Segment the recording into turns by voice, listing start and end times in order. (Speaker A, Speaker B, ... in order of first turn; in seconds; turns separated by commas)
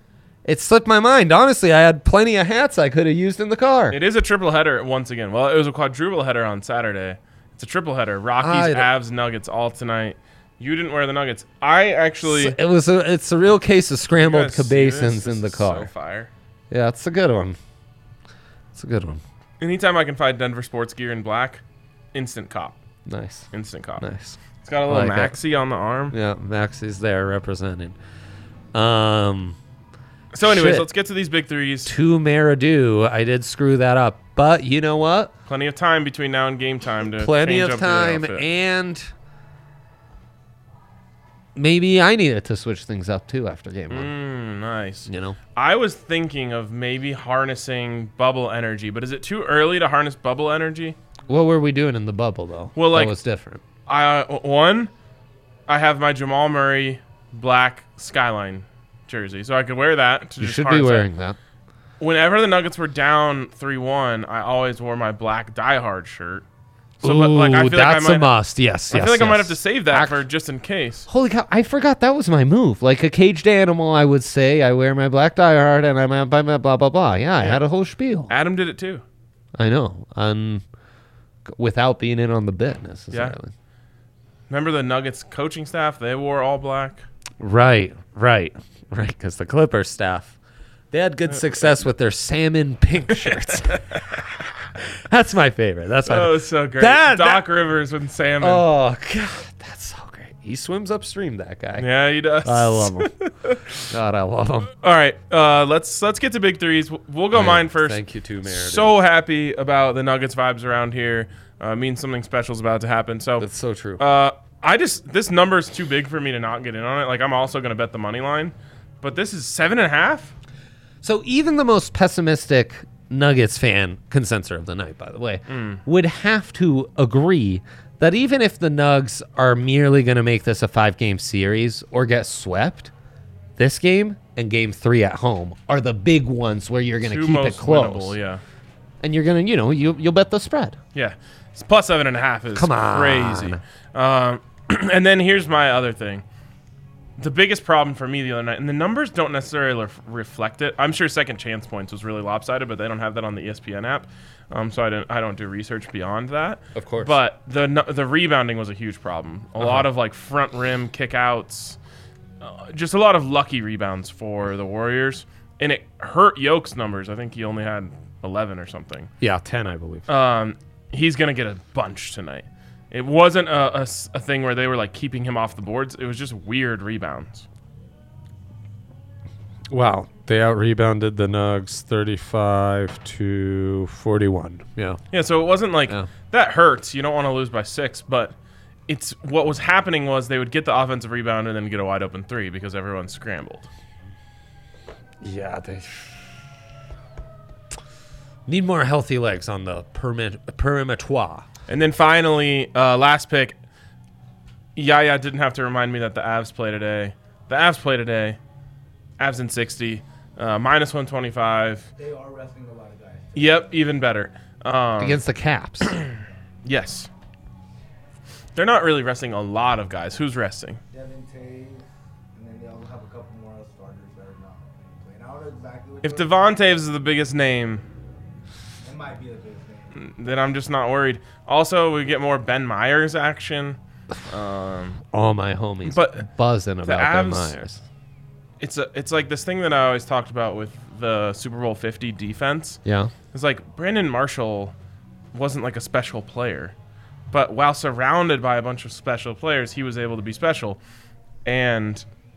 Speaker A: 0.4-4.0, Speaker B: 3.9-12.6, Speaker A: 8.4-8.9, Speaker A: 12.2-15.9, Speaker B: 14.2-16.3, Speaker A: 16.7-17.6, Speaker A: 18.8-19.2, Speaker B: 19.6-21.6, Speaker B: 22.1-22.8, Speaker A: 23.0-25.4, Speaker B: 23.5-24.1, Speaker B: 24.6-26.1, Speaker A: 26.1-28.0, Speaker A: 28.7-29.6, Speaker B: 30.3-31.9, Speaker A: 30.4-30.9, Speaker A: 31.9-35.3, Speaker B: 35.5-38.5, Speaker A: 37.1-39.1, Speaker A: 41.5-44.1, Speaker B: 43.9-51.0, Speaker A: 45.1-45.4, Speaker A: 51.3-53.6, Speaker B: 52.8-53.1, Speaker B: 53.9-54.9, Speaker B: 55.7-61.1, Speaker A: 60.4-61.4, Speaker B: 62.0-66.4, Speaker B: 67.0-68.3, Speaker A: 67.0-70.2, Speaker B: 68.9-71.1, Speaker A: 71.1-78.3, Speaker B: 78.3-79.0, Speaker A: 79.5-80.6, Speaker A: 81.5-83.5, Speaker B: 84.5-87.0, Speaker A: 87.4-90.4, Speaker A: 90.9-93.8, Speaker B: 93.2-94.0, Speaker A: 95.0-97.4, Speaker B: 96.0-98.7, Speaker A: 98.4-101.9, Speaker B: 101.8-103.7, Speaker A: 102.4-103.1, Speaker A: 103.9-104.7, Speaker B: 104.8-113.5, Speaker A: 107.3-108.9, Speaker A: 113.4-114.0, Speaker B: 114.0-120.3, Speaker A: 121.0-132.9, Speaker B: 125.5-125.8, Speaker A: 133.6-138.2, Speaker B: 137.0-138.4, Speaker A: 139.0-140.8, Speaker B: 140.9-146.2, Speaker A: 142.5-143.6, Speaker B: 147.2-161.8, Speaker A: 156.8-157.2, Speaker A: 159.6-159.9, Speaker B: 162.4-169.1, Speaker A: 169.2-170.1, Speaker B: 170.1-177.4, Speaker A: 179.7-185.0, Speaker B: 185.1-188.4, Speaker B: 188.9-193.7, Speaker A: 195.2-196.2, Speaker A: 198.5-201.4, Speaker B: 201.7-203.6, Speaker B: 204.8-208.4, Speaker B: 209.2-211.9, Speaker C: 212.0-213.8, Speaker B: 213.3-215.2, Speaker A: 215.0-215.9, Speaker B: 216.6-217.1, Speaker B: 218.6-220.8, Speaker C: 220.9-226.3, Speaker B: 226.0-227.8, Speaker C: 228.8-229.9, Speaker B: 229.9-235.0, Speaker A: 235.1-237.8, Speaker B: 235.9-236.2, Speaker B: 236.8-237.6, Speaker B: 238.6-242.8, Speaker A: 242.8-243.1, Speaker B: 243.3-244.7, Speaker B: 245.3-246.7, Speaker B: 247.3-250.8, Speaker B: 251.4-252.0